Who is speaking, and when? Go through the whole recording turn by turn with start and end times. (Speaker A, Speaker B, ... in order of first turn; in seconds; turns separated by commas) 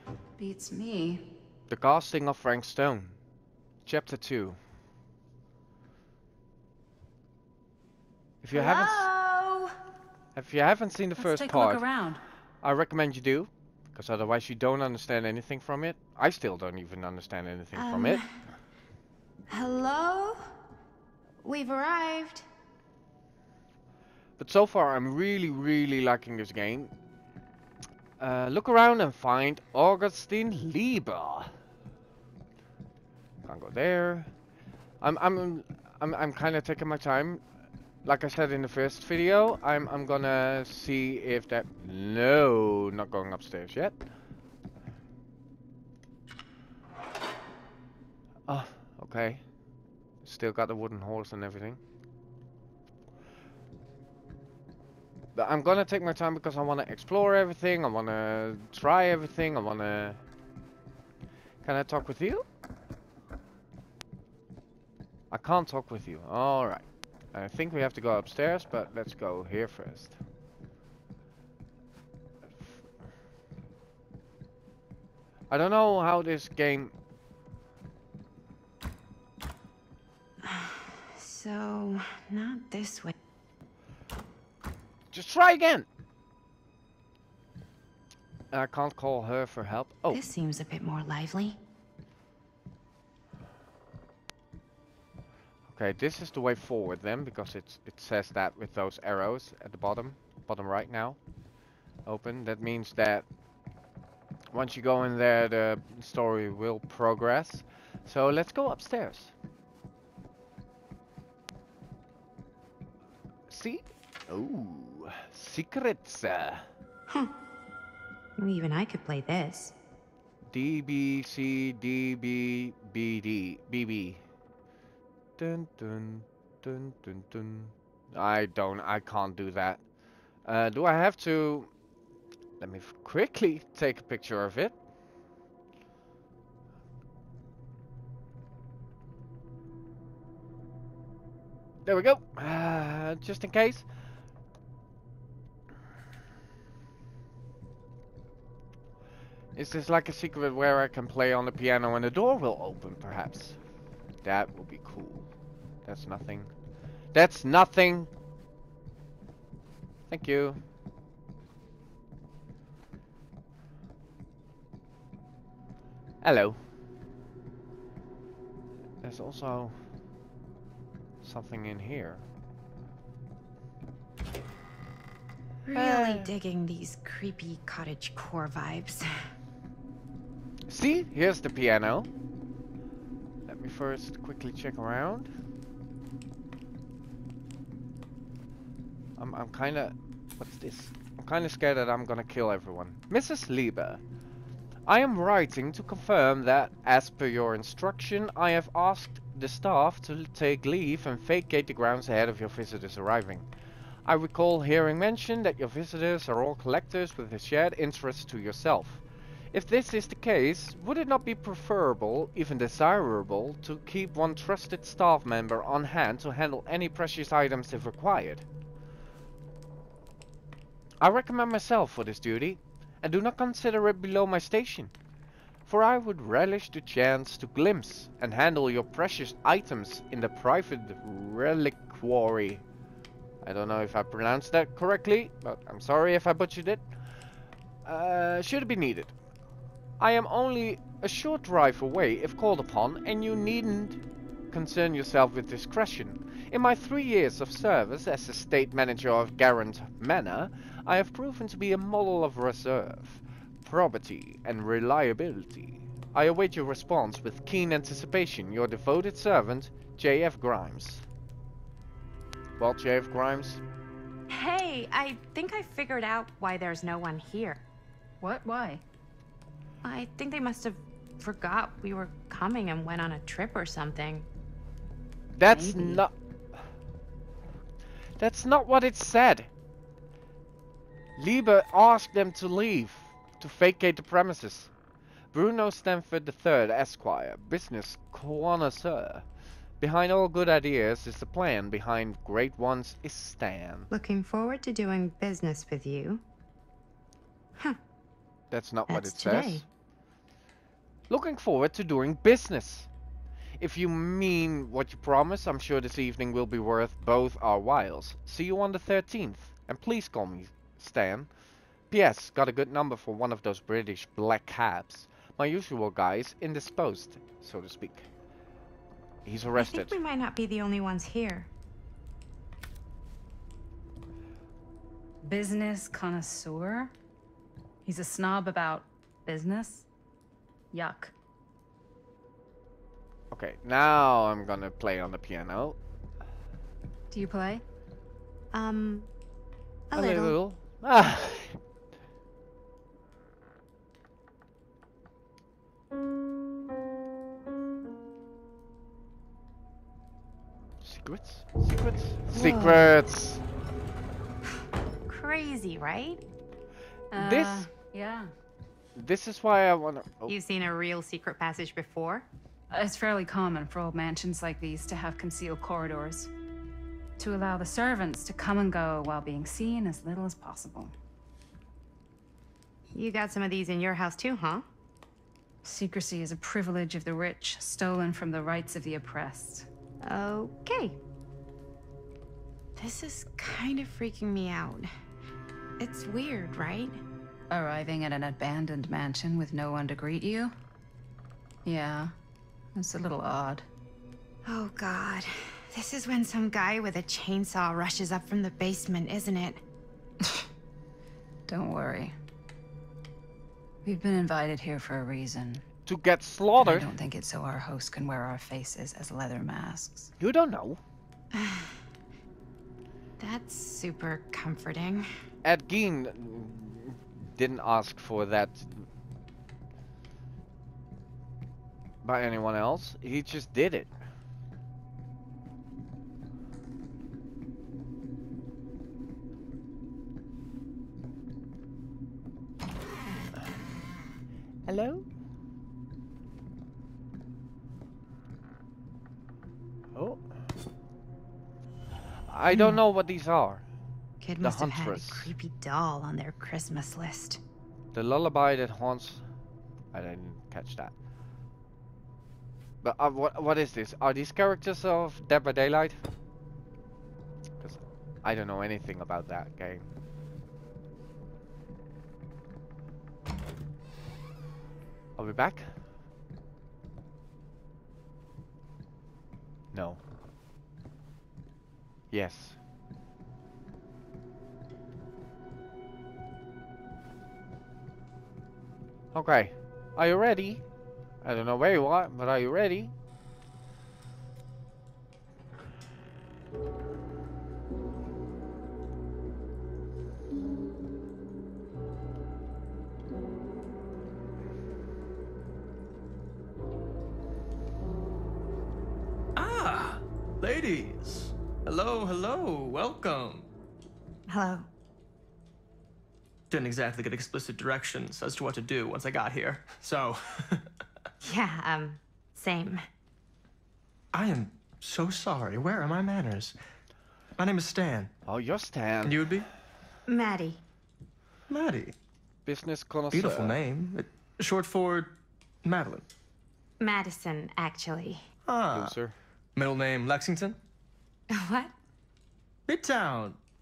Speaker A: 0.4-1.2, Speaker B: 1.7-3.2, Speaker B: 3.9-4.6, Speaker B: 8.4-9.1, Speaker C: 8.5-9.8, Speaker B: 10.4-11.9, Speaker A: 11.2-12.2, Speaker B: 12.6-18.2, Speaker C: 17.7-18.3, Speaker C: 19.5-20.5, Speaker C: 21.4-22.5, Speaker B: 24.4-26.9, Speaker B: 28.2-31.5, Speaker B: 33.5-34.3, Speaker B: 35.0-37.4, Speaker B: 38.0-44.0, Speaker B: 48.5-49.4, Speaker B: 50.2-51.8, Speaker B: 55.4-60.2, Speaker B: 61.6-62.5, Speaker B: 65.3-70.2, Speaker B: 75.5-76.9, Speaker C: 80.4-83.2, Speaker B: 85.1-85.8, Speaker B: 88.5-90.2, Speaker C: 90.1-91.6, Speaker B: 95.7-101.2, Speaker B: 102.0-103.2, Speaker B: 104.5-109.3, Speaker B: 113.5-116.6, Speaker C: 118.4-119.8, Speaker B: 120.5-124.2, Speaker B: 125.4-129.8, Speaker B: 130.4-131.7, Speaker B: 132.6-134.8, Speaker B: 141.8-143.8, Speaker B: 149.5-153.6, Speaker B: 154.2-155.3, Speaker B: 155.8-156.5, Speaker B: 157.1-158.1, Speaker B: 160.1-160.6, Speaker B: 166.2-166.6, Speaker B: 169.0-169.8, Speaker B: 171.2-172.2, Speaker C: 175.6-179.1, Speaker B: 175.7-176.3, Speaker B: 180.7-182.1, Speaker B: 183.5-185.3, Speaker B: 189.2-194.0, Speaker B: 194.9-203.5, Speaker B: 204.0-209.0, Speaker B: 209.5-218.4, Speaker B: 221.0-224.9, Speaker B: 225.7-232.6, Speaker B: 233.4-236.8, Speaker B: 237.8-239.1, Speaker B: 240.0-244.0, Speaker B: 244.5-261.1, Speaker B: 262.6-263.6, Speaker C: 264.3-267.6, Speaker A: 268.2-268.8, Speaker C: 269.8-274.3, Speaker B: 275.3-276.1, Speaker A: 275.7-276.0, Speaker B: 278.2-279.5, Speaker B: 281.2-284.7, Speaker B: 285.3-289.2, Speaker B: 289.8-293.9, Speaker C: 293.9-296.2, Speaker B: 298.5-299.6, Speaker C: 298.9-299.6, Speaker B: 301.1-302.9, Speaker B: 303.6-311.3, Speaker B: 311.9-318.1, Speaker B: 319.2-319.9, Speaker C: 319.6-321.5, Speaker A: 325.2-326.9, Speaker A: 327.8-329.9, Speaker A: 330.7-331.1, Speaker B: 333.3-335.8, Speaker A: 337.1-337.6, Speaker C: 338.5-339.1, Speaker C: 339.9-340.4, Speaker B: 339.9-341.6, Speaker B: 350.8-353.4, Speaker C: 352.3-352.9, Speaker C: 355.1-356.2, Speaker A: 357.1-358.3, Speaker B: 357.1-357.7, Speaker B: 358.9-360.4, Speaker C: 360.3-362.2, Speaker A: 362.7-366.3, Speaker A: 367.2-370.9, Speaker C: 372.9-374.6, Speaker A: 375.6-379.7, Speaker C: 380.0-381.0, Speaker C: 382.8-384.9, Speaker C: 385.8-387.0, Speaker A: 387.5-390.6, Speaker A: 391.6-392.1, Speaker A: 392.8-393.6, Speaker C: 394.4-399.6, Speaker A: 401.5-402.1, Speaker A: 403.8-405.6, Speaker B: 405.9-406.9, Speaker A: 406.6-410.1, Speaker B: 410.2-410.8, Speaker C: 411.3-411.7, Speaker C: 413.2-415.1, Speaker B: 415.4-418.8, Speaker B: 422.0-423.9, Speaker B: 434.6-435.1, Speaker B: 439.9-440.2, Speaker B: 442.3-443.6, Speaker C: 442.5-442.8, Speaker C: 444.2-447.4, Speaker B: 444.4-445.3, Speaker B: 447.9-449.2, Speaker B: 449.9-450.9, Speaker B: 452.8-456.0, Speaker B: 457.6-459.9, Speaker B: 465.2-465.8, Speaker B: 469.7-470.0, Speaker B: 472.1-472.6, Speaker B: 479.1-480.6, Speaker B: 481.2-482.9, Speaker D: 499.4-503.5, Speaker C: 504.3-504.7, Speaker D: 506.5-510.7, Speaker C: 511.2-512.8, Speaker D: 514.1-516.5, Speaker D: 517.4-518.1, Speaker B: 518.2-519.3, Speaker D: 519.0-519.5, Speaker C: 520.1-520.6, Speaker D: 521.5-522.0, Speaker B: 522.5-523.6, Speaker D: 523.1-526.1, Speaker C: 526.8-528.2, Speaker D: 528.5-529.0, Speaker B: 528.7-529.1, Speaker D: 529.6-530.6, Speaker C: 531.3-531.7, Speaker D: 532.7-533.4